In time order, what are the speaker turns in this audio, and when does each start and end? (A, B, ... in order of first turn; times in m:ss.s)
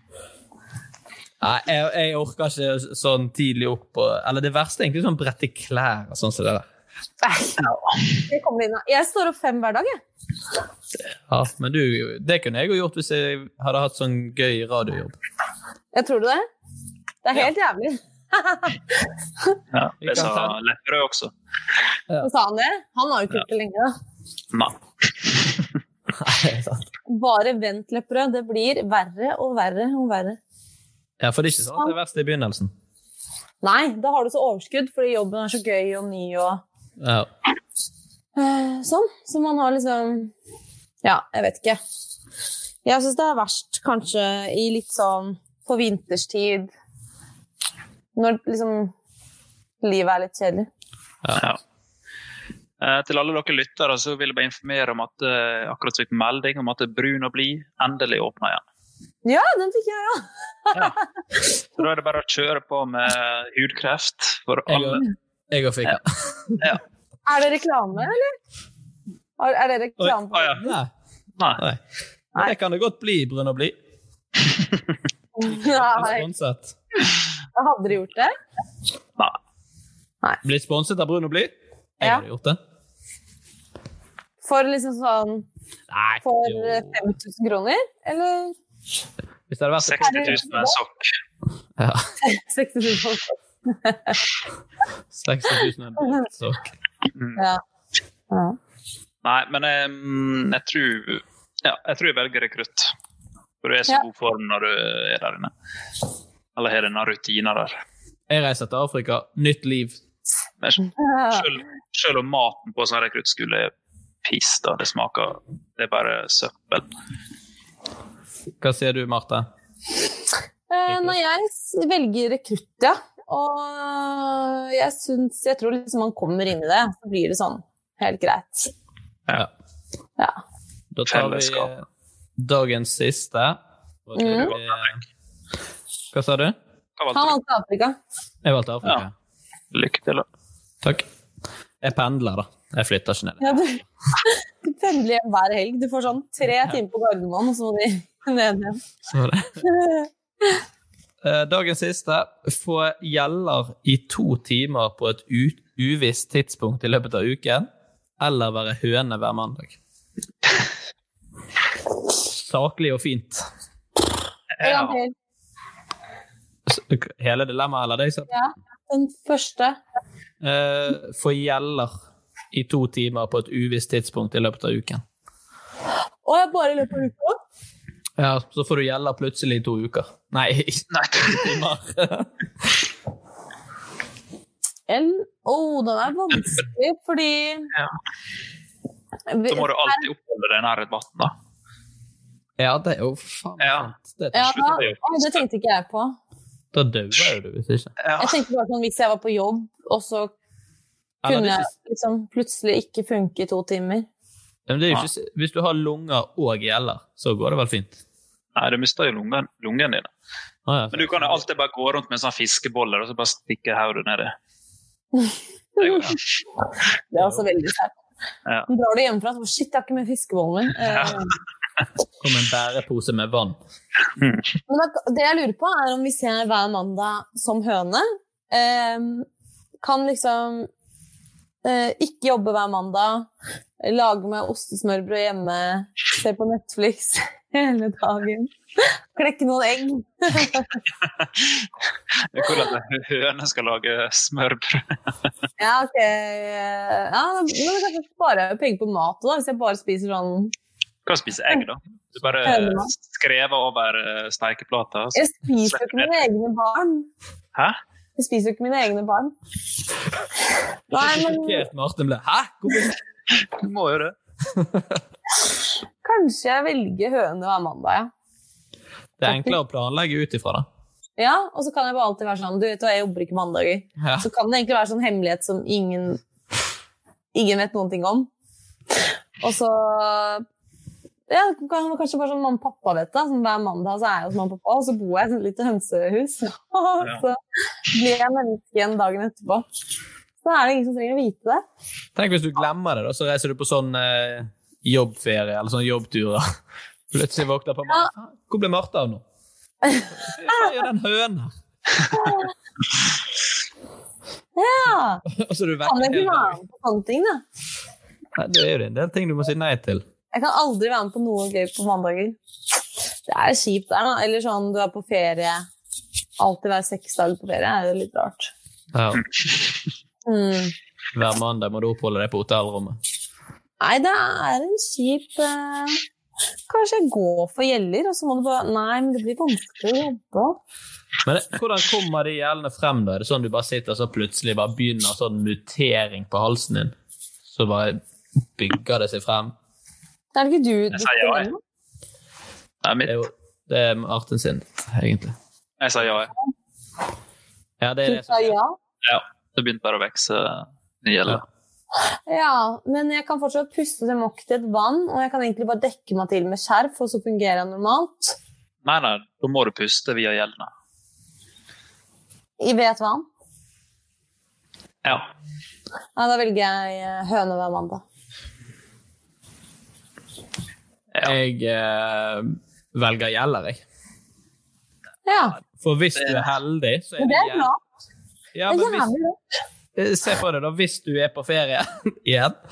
0:01.4-0:06.6 A
0:07.2-0:07.6 B
0:07.6-0:08.1 C
0:08.3-0:10.0 B
0:11.3-0:15.2 A
0:15.9-0:16.5 B
0:17.2-0:19.6 B
0:19.7-0:21.3 C
0:20.0-0:20.6 A
0:22.2-0:24.0 B
0:24.5-0:25.3 C
0:26.2-0:26.8 A
0:27.1-0:30.4 B
0:31.2-0:32.7 A
0:33.6-0:36.6 B
0:37.0-0:37.3 A
0:38.4-0:40.3 B
0:41.0-0:41.8 B
0:42.8-0:46.7 B
0:48.2-0:48.9 B
0:49.8-0:50.7 B
0:51.2-0:51.5 A
0:52.8-0:58.6 C
0:59.2-1:01.0 B
1:01.8-1:05.0 C
1:04.7-1:06.6 A
1:07.3-1:08.3 B
1:09.4-1:10.7 B
1:10.0-1:10.9 A
1:10.3-1:10.6 C
1:12.4-1:13.8 A
1:15.4-1:16.3 B
1:15.4-1:16.8 A
1:17.6-1:18.3 B
1:20.4-1:22.6 A
1:24.4-1:25.5 B
1:25.9-1:27.1 A
1:26.2-1:28.6 B
1:29.5-1:30.5 A
1:29.8-1:31.0 C
1:30.0-1:30.8 B
1:31.8-1:32.1 A
1:32.2-1:34.2 B
1:35.1-1:36.6 A
1:37.2-1:37.4 C
1:38.3-1:38.6 B
1:39.2-1:42.9 C
1:43.6-1:45.5 C
1:46.6-1:47.8 C
1:48.3-1:50.0 A
1:50.6-1:53.7 C
1:51.0-1:51.4 B
1:54.2-1:56.9 C
1:58.6-1:59.5 A
2:00.7-2:08.7 B
2:00.9-2:01.2 A
2:10.9-2:11.9 A
2:11.1-2:11.7 C
2:12.4-2:15.0 A
2:14.2-2:14.5 B
2:14.3-2:14.7 C
2:16.1-2:16.6 A
2:17.0-2:17.4 C
2:17.1-2:18.0 B
2:18.4-2:19.1 A
2:19.7-2:20.3 C
2:21.8-2:23.6 A
2:23.4-2:28.8 B
2:29.1-2:29.6 A
2:29.6-2:30.6 B
2:31.2-2:37.7 A
2:38.2-2:39.8 A
2:42.3-2:43.4 A
2:44.6-2:45.0 C
2:44.6-2:45.1 B
2:46.7-2:48.3 A
2:48.3-2:49.8 B
2:50.4-2:51.9 A
2:52.5-2:55.0 A
2:56.2-2:57.4 B
2:58.2-3:02.3 A
3:00.9-3:01.5 C
3:04.9-3:07.7 B
3:09.3-3:10.0 B
3:09.5-3:11.3 C
3:12.6-3:14.8 A
3:13.6-3:13.9 C
3:14.3-3:16.2 B
3:14.4-3:15.4 C
3:16.7-3:17.9 A
3:18.0-3:18.4 C
3:18.2-3:20.3 B
3:21.2-3:21.7 A
3:21.3-3:24.1 B
3:24.7-3:28.0 A
3:28.6-3:30.1 C
3:30.7-3:31.4 A
3:30.9-3:34.3 C
3:35.2-3:36.1 B
3:35.8-3:36.1 C
3:37.1-3:37.9 B
3:37.2-3:37.4 A
3:38.7-3:41.3 B
3:40.9-3:41.2 C
3:42.2-3:43.6 A
3:44.2-3:44.4 C
3:44.7-3:49.3 B
3:49.8-3:50.7 B
3:51.6-3:53.3 B
3:53.8-4:00.8 B
4:02.3-4:05.0 C
4:05.6-4:10.5 B
4:11.1-4:16.1 C
4:12.4-4:12.9 B
4:15.2-4:17.1 B
4:18.2-4:19.3 B
4:20.9-4:21.7 B
4:21.0-4:23.0 A
4:23.6-4:24.2 C
4:24.5-4:25.0 A
4:26.0-4:28.1 B
4:29.2-4:30.7 A
4:29.3-4:29.6 B
4:31.2-4:36.2 B
4:34.0-4:34.3 A
4:37.3-4:38.3 B
4:39.4-4:40.4 B
4:41.3-4:47.4 B
4:47.9-4:49.7 B
4:50.4-4:51.6 B
4:52.2-4:56.4 A
4:57.1-4:59.2 A
4:59.8-5:00.6 B
5:00.1-5:01.5 A
5:02.1-5:02.4 B
5:04.6-5:05.2 B
5:05.3-5:06.6 A
5:05.9-5:07.4 B
5:08.4-5:10.0 A
5:10.3-5:12.4 B
5:13.3-5:15.7 B
5:16.4-5:18.5 B
5:18.9-5:19.2 A
5:20.2-5:20.7 B
5:21.1-5:23.0 A
5:23.8-5:26.0 B
5:26.7-5:30.6 B
5:31.3-5:36.9 A
5:37.5-5:38.0 A
5:38.6-5:39.5 A
5:40.3-5:41.6 B
5:40.9-5:41.5 C
5:42.8-5:43.2 C
5:43.0-5:45.4 A
5:45.8-5:46.3 C
5:47.8-5:48.6 A
5:48.1-5:48.8 B
5:49.0-5:51.4 C
5:52.3-5:58.4 B
5:58.8-6:00.7 C
6:02.6-6:03.3 B
6:06.2-6:08.0 B
6:11.2-6:13.8 A
6:15.3-6:15.6 B
6:15.8-6:17.7 A
6:17.2-6:17.8 B
6:18.6-6:19.1 A
6:18.7-6:19.4 B
6:20.0-6:22.6 A